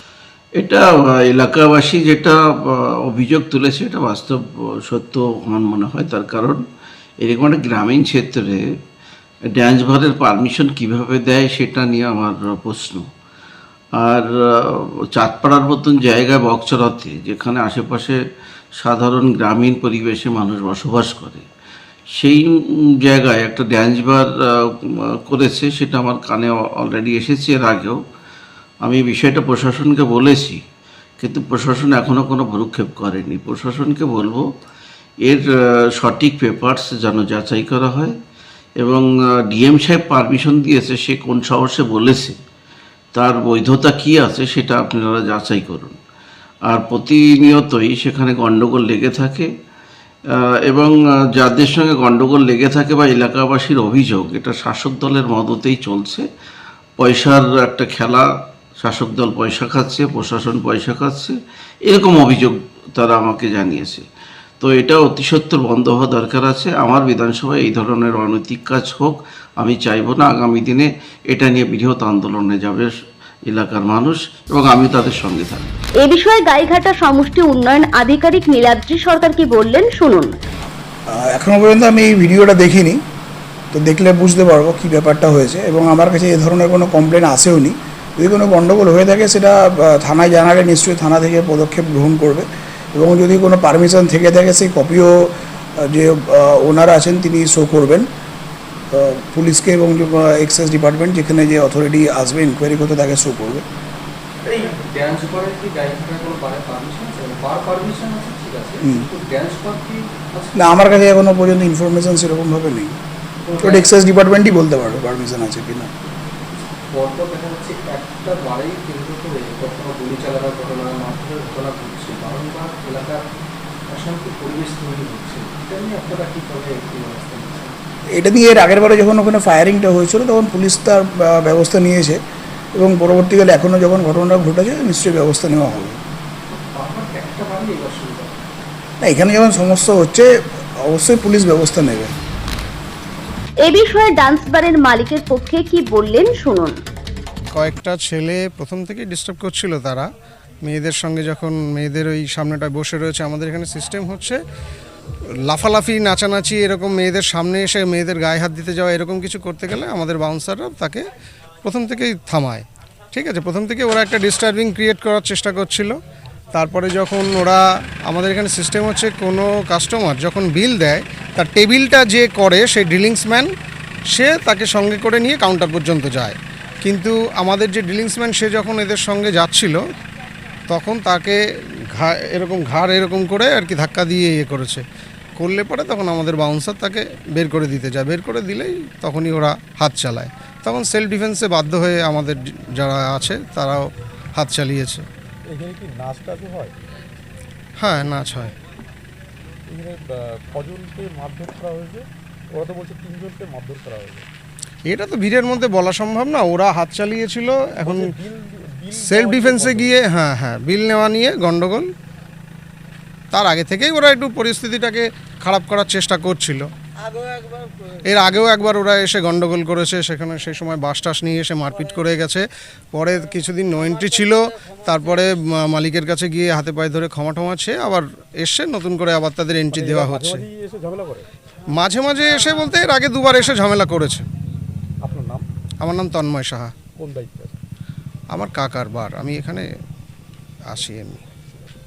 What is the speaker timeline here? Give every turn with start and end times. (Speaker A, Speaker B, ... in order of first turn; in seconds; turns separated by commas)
Speaker A: 0.6-6.6, Speaker A: 7.2-8.6, Speaker A: 9.5-13.1, Speaker A: 14.0-18.2, Speaker A: 18.8-21.5, Speaker A: 22.2-22.5, Speaker A: 23.0-24.3, Speaker A: 25.3-28.0, Speaker A: 28.9-30.6, Speaker A: 31.2-34.4, Speaker A: 36.0-38.1, Speaker A: 38.8-42.4, Speaker A: 43.1-46.0, Speaker A: 46.7-49.5, Speaker A: 50.7-56.2, Speaker A: 57.0-58.3, Speaker A: 58.8-61.4, Speaker A: 61.9-64.0, Speaker A: 64.6-72.9, Speaker A: 73.5-75.7, Speaker B: 76.0-80.3, Speaker C: 81.1-83.0, Speaker C: 83.7-98.1, Speaker C: 98.9-103.7, Speaker D: 104.5-110.5, Speaker C: 110.6-113.0, Speaker D: 113.5-113.9, Speaker C: 113.6-115.9, Speaker D: 116.9-123.2, Speaker D: 123.9-127.8, Speaker C: 128.2-132.2, Speaker C: 132.8-136.0, Speaker D: 136.5-138.4, Speaker C: 139.0-142.1, Speaker B: 143.6-146.8, Speaker E: 147.5-150.1, Speaker E: 150.7-154.4, Speaker E: 155.5-161.1, Speaker E: 161.6-165.9, Speaker E: 166.5-173.5, Speaker E: 174.1-179.8, Speaker E: 180.7-181.4, Speaker E: 182.0-184.8, Speaker E: 185.4-193.8, Speaker E: 194.4-195.1, Speaker F: 195.5-196.8, Speaker E: 197.8-198.5, Speaker F: 199.7-204.3, Speaker E: 204.9-208.1, Speaker F: 207.8-209.9, Speaker E: 209.0-211.9, Speaker E: 213.3-216.7, Speaker E: 218.1-230.4, Speaker F: 229.7-231.3, Speaker E: 231.8-234.3, Speaker F: 235.0-235.5, Speaker E: 235.8-236.7, Speaker F: 237.0-237.6, Speaker E: 238.3-239.7, Speaker E: 240.7-241.2